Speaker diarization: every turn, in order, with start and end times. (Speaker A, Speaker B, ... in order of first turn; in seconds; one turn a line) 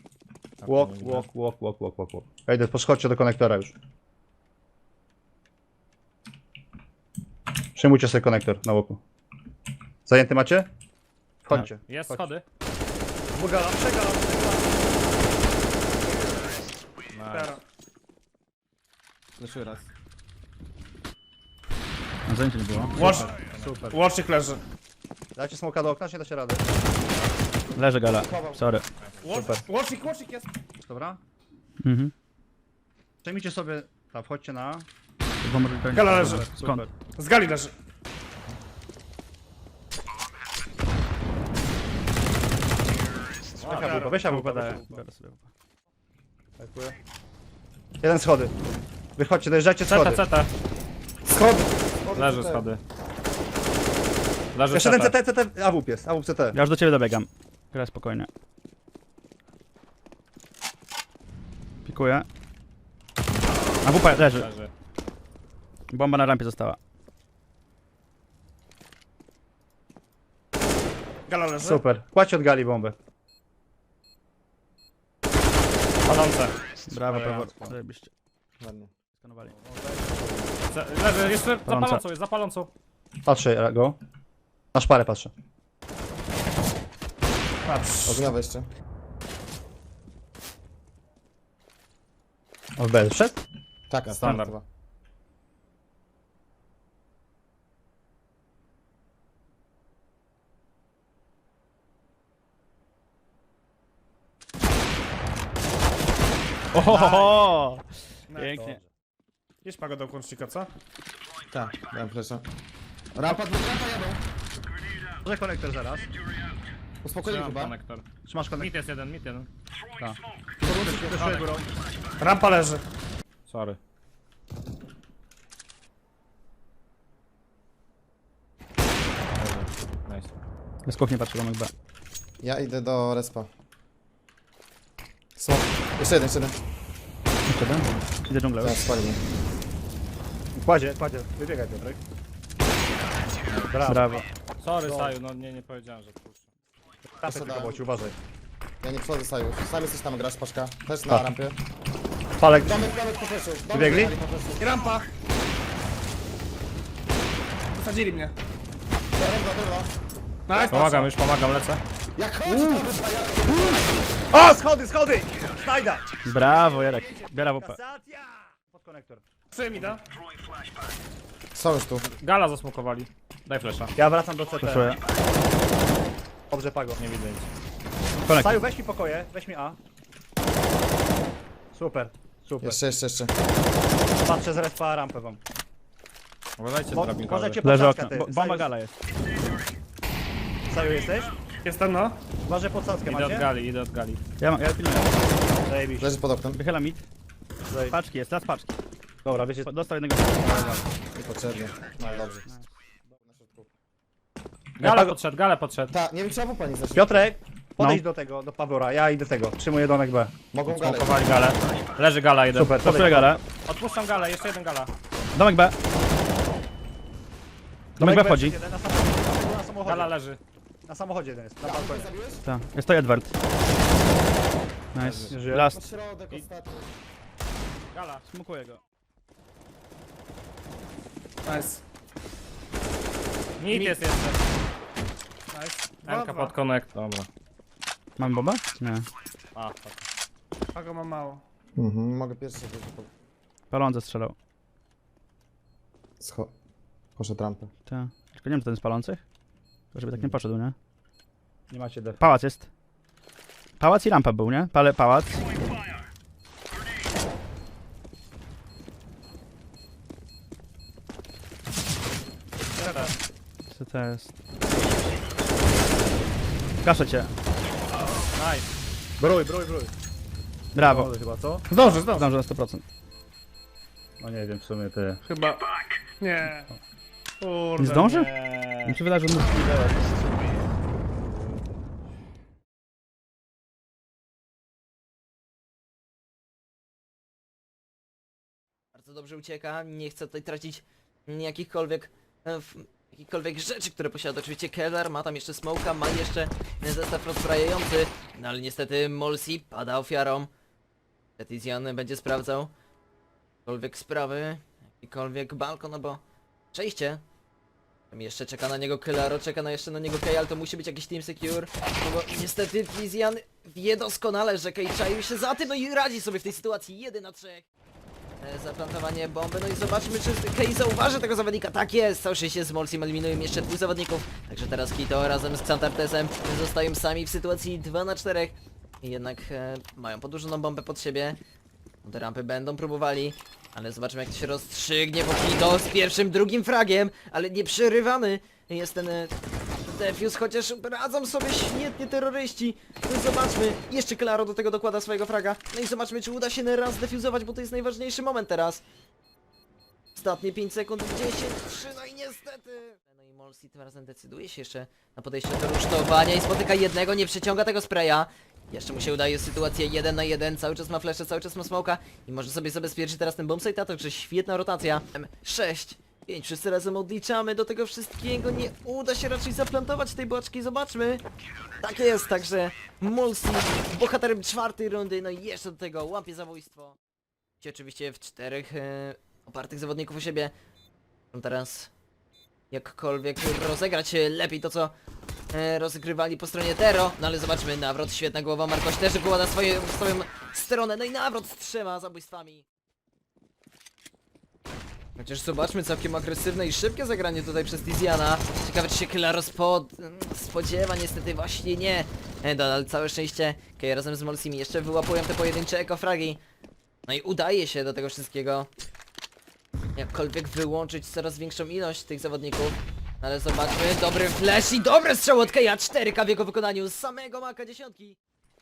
Speaker A: 0.6-1.3
Speaker B: 0.7-3.7
Speaker B: 7.8-9.0
Speaker B: 10.1-10.7
Speaker B: 11.4-12.2
Speaker A: 11.9-12.4
Speaker B: 13.3-14.6
Speaker A: 17.1-17.6
Speaker C: 17.3-17.6
Speaker D: 19.4-19.7
Speaker E: 22.3-23.4
Speaker C: 23.0-23.4
Speaker A: 23.0-23.9
Speaker B: 23.6-24.0
Speaker C: 23.9-24.6
Speaker B: 25.4-26.6
Speaker E: 27.8-28.8
Speaker D: 28.2-28.6
Speaker A: 29.0-29.5
Speaker C: 29.2-30.5
Speaker B: 30.8-31.2
Speaker E: 31.8-32.1
Speaker B: 33.2-34.9
Speaker E: 35.4-36.9
Speaker C: 35.9-37.7
Speaker A: 43.6-44.1
Speaker B: 43.7-44.9
Speaker E: 43.8-45.5
Speaker C: 43.8-44.1
Speaker B: 46.6-47.0
Speaker B: 48.0-48.5
Speaker B: 49.1-50.2
Speaker A: 49.8-50.5
Speaker D: 51.2-52.6
Speaker A: 52.1-52.8
Speaker A: 54.5-55.1
Speaker B: 54.7-56.6
Speaker E: 56.5-58.3
Speaker E: 61.9-62.2
Speaker E: 63.8-64.5
Speaker A: 64.2-64.7
Speaker E: 65.9-66.8
Speaker C: 71.3-71.8
Speaker B: 71.7-72.9
Speaker A: 76.0-76.5
Speaker E: 76.9-78.1
Speaker A: 77.1-77.5
Speaker D: 78.6-78.9
Speaker E: 79.1-79.5
Speaker A: 80.7-82.7
Speaker E: 81.7-82.0
Speaker B: 83.2-84.0
Speaker B: 84.7-85.3
Speaker C: 87.7-88.2
Speaker D: 88.0-88.7
Speaker B: 92.8-93.4
Speaker D: 93.9-94.6
Speaker A: 94.1-94.5
Speaker E: 106.7-108.8
Speaker B: 106.9-107.3
Speaker B: 108.5-108.8
Speaker A: 109.6-110.7
Speaker D: 111.5-112.4
Speaker D: 113.1-114.2
Speaker B: 115.2-116.1
Speaker D: 117.0-117.8
Speaker A: 117.2-119.5
Speaker B: 118.2-118.7
Speaker B: 120.0-121.7
Speaker D: 120.6-121.2
Speaker A: 120.7-121.5
Speaker C: 122.2-122.8
Speaker A: 123.5-123.8
Speaker A: 129.4-130.3
Speaker E: 130.9-131.7
Speaker D: 132.4-133.5
Speaker D: 135.3-136.6
Speaker E: 137.5-138.8
Speaker D: 138.6-139.2
Speaker B: 140.5-142.0
Speaker A: 143.5-143.8
Speaker B: 143.7-144.2
Speaker E: 143.8-144.2
Speaker A: 144.6-146.5
Speaker B: 144.8-145.1
Speaker B: 147.2-148.2
Speaker D: 147.2-147.8
Speaker D: 148.8-151.6
Speaker B: 152.4-152.7
Speaker D: 152.6-154.7
Speaker B: 153.7-154.1
Speaker C: 154.6-155.1
Speaker C: 157.7-158.3
Speaker D: 159.2-159.9
Speaker C: 160.5-161.1
Speaker A: 160.7-161.8
Speaker D: 162.2-163.8
Speaker B: 164.3-166.1
Speaker E: 166.2-167.8
Speaker B: 167.5-169.2
Speaker C: 169.5-170.0
Speaker D: 171.5-172.1
Speaker A: 172.2-173.9
Speaker B: 173.9-174.9
Speaker E: 174.6-175.0
Speaker B: 176.5-177.0
Speaker A: 177.0-177.5
Speaker E: 178.3-178.6
Speaker B: 178.4-179.8
Speaker B: 181.7-182.8
Speaker D: 182.6-183.3
Speaker B: 184.2-185.4
Speaker A: 186.6-187.6
Speaker B: 186.9-188.7
Speaker E: 187.6-188.9
Speaker B: 190.7-191.3
Speaker C: 191.6-192.2
Speaker B: 192.4-193.4
Speaker A: 193.1-194.2
Speaker E: 194.4-195.1
Speaker B: 195.7-196.1
Speaker D: 196.0-196.6
Speaker E: 196.5-197.1
Speaker B: 197.7-197.9
Speaker E: 197.9-198.7
Speaker B: 199.2-199.7
Speaker E: 199.6-200.7
Speaker D: 201.1-202.6
Speaker D: 203.2-203.7
Speaker A: 204.8-205.9
Speaker B: 204.8-205.1
Speaker D: 205.9-207.2
Speaker B: 206.9-210.3
Speaker E: 207.8-208.0
Speaker D: 210.5-211.2
Speaker A: 210.7-213.1
Speaker E: 212.5-213.4
Speaker B: 212.6-213.3
Speaker A: 213.6-214.9
Speaker E: 215.3-215.7
Speaker B: 218.0-220.1
Speaker E: 218.0-218.6
Speaker A: 219.8-220.4
Speaker B: 220.9-222.1
Speaker D: 221.6-222.4
Speaker E: 222.4-223.3
Speaker E: 224.9-225.8
Speaker A: 225.0-225.3
Speaker B: 225.3-225.6
Speaker D: 225.5-226.9
Speaker A: 227.9-228.2
Speaker E: 228.2-228.8
Speaker C: 231.4-231.8
Speaker A: 233.6-234.4
Speaker C: 233.7-234.0
Speaker C: 235.5-236.6
Speaker A: 236.0-237.3
Speaker E: 238.2-239.1
Speaker A: 239.5-240.0
Speaker C: 240.7-241.4
Speaker D: 241.8-243.1
Speaker E: 243.7-244.3
Speaker D: 246.2-246.5
Speaker D: 247.2-247.7
Speaker E: 247.9-249.2
Speaker E: 249.9-250.7
Speaker D: 250.1-250.4
Speaker B: 251.7-252.2
Speaker E: 252.2-252.7
Speaker E: 253.8-255.4
Speaker A: 262.8-263.1
Speaker E: 263.7-264.3
Speaker E: 266.8-267.3
Speaker A: 268.3-268.6
Speaker B: 269.2-269.9
Speaker E: 270.7-271.1
Speaker B: 270.8-271.6
Speaker C: 271.7-272.2
Speaker E: 272.1-272.8
Speaker B: 274.2-275.2
Speaker C: 275.2-275.6
Speaker C: 276.2-276.7
Speaker C: 277.4-278.2
Speaker E: 277.8-278.3
Speaker A: 278.3-278.9
Speaker E: 278.8-279.9
Speaker F: 288.9-300.5
Speaker F: 301.4-302.7
Speaker F: 303.6-306.2
Speaker F: 306.7-307.2
Speaker F: 308.1-317.6
Speaker F: 318.4-331.4
Speaker F: 332.0-348.8
Speaker F: 350.1-371.2
Speaker F: 371.8-377.0
Speaker F: 377.6-380.5
Speaker F: 381.3-381.9
Speaker F: 382.7-384.9
Speaker F: 385.5-392.6
Speaker F: 395.2-406.4
Speaker F: 407.1-408.7
Speaker F: 409.9-418.2